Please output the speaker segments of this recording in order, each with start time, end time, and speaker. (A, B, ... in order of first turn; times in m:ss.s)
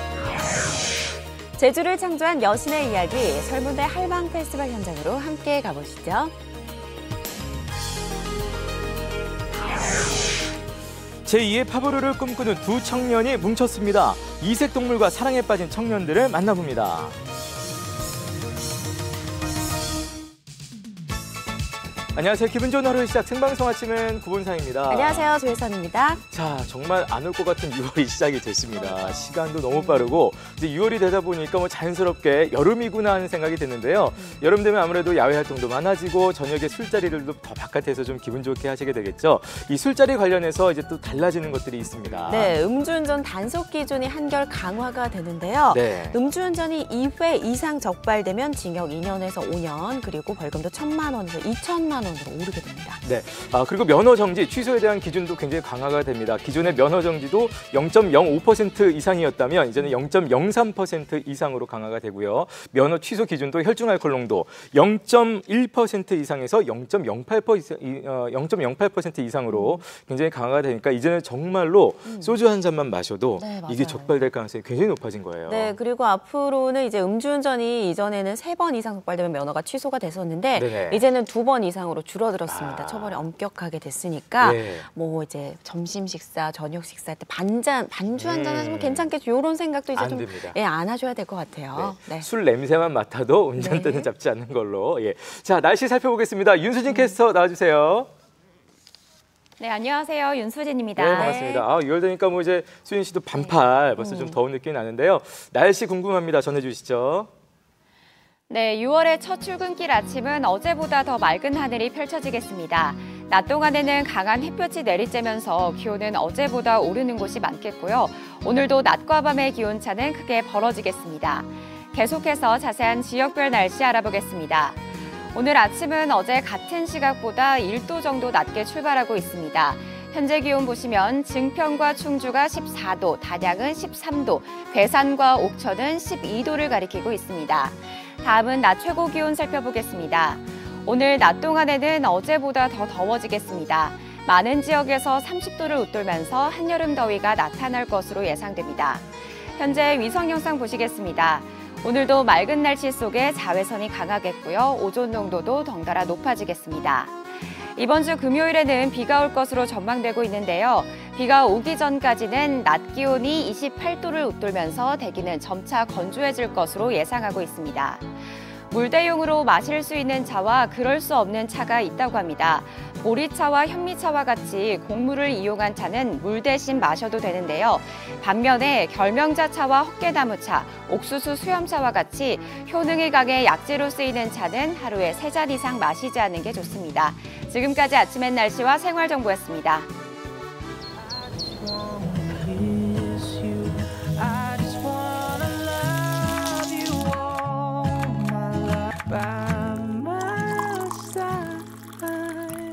0:01.6-0:06.3 A
0:11.2-0:17.2 B
0:22.1-0:25.3 B
0:24.9-0:26.2 A
0:26.3-0:42.6 B
0:28.8-0:30.1 A
0:42.2-0:53.0 A
0:45.7-0:46.2 B
0:53.0-1:15.8 B
1:09.5-1:09.8 A
1:12.0-1:12.4 A
1:13.4-1:14.2 A
1:15.5-1:32.3 A
1:20.6-1:21.0 B
1:22.5-1:23.2 B
1:24.4-1:24.9 B
1:28.1-1:29.1 B
1:29.9-1:30.6 B
1:31.7-1:38.1 B
1:33.6-1:34.1 A
1:36.9-1:37.2 A
1:39.6-1:41.2 C
1:41.0-1:47.3 B
1:41.1-1:41.6 A
1:43.3-1:44.4 A
1:48.5-2:04.8 C
2:05.3-2:48.2 C
2:48.7-3:09.9 C